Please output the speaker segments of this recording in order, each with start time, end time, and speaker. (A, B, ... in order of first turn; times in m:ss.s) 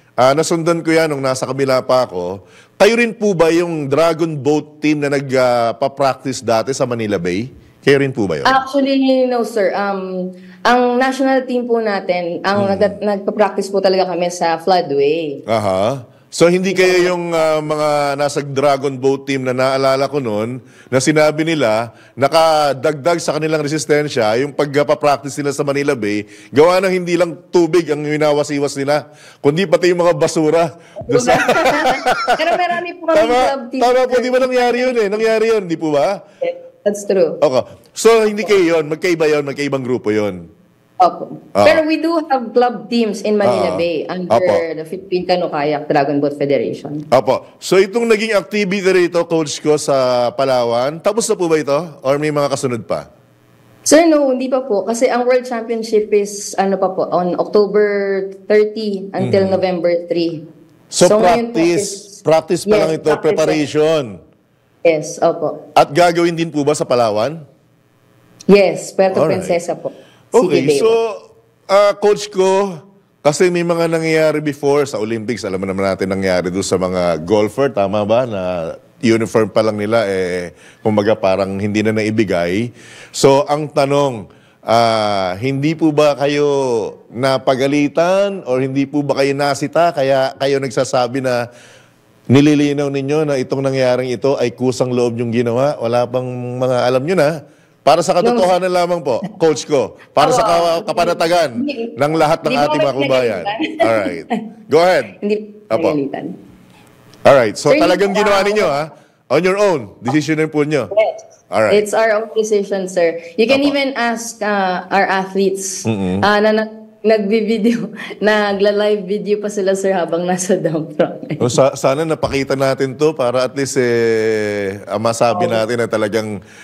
0:00.2-0:08.6 A
0:08.4-0:15.4 B
0:12.6-0:12.9 A
0:15.5-0:32.4 A
0:16.7-0:17.2 B
0:31.0-0:35.2 B
0:33.1-0:36.1 A
0:36.4-0:37.4 B
0:37.4-0:40.4 A
0:38.3-0:38.5 B
0:41.0-0:47.0 B
0:41.6-0:41.8 A
0:43.4-0:44.6 A
0:47.1-0:53.1 A
0:53.8-1:00.4 B
0:59.2-0:59.6 A
1:00.9-1:04.1 A
1:01.0-1:03.6 B
1:04.8-1:05.6 B
1:05.8-1:07.4 A
1:08.5-1:11.0 B
1:09.1-1:09.6 A
1:10.3-1:11.1 A
1:11.7-1:12.6 A
1:13.2-1:24.2 A
1:24.7-1:31.4 A
1:32.3-1:37.3 A
1:37.9-1:45.1 A
1:38.2-1:38.5 B
1:40.2-1:44.2 B
1:45.2-1:46.3 B
1:47.2-1:50.9 A
1:47.7-1:48.8 B
1:50.9-2:01.5 B
1:51.5-1:51.8 A
1:53.5-1:53.7 A
1:55.9-1:56.2 A
2:01.4-2:06.3 A
2:05.3-2:05.6 B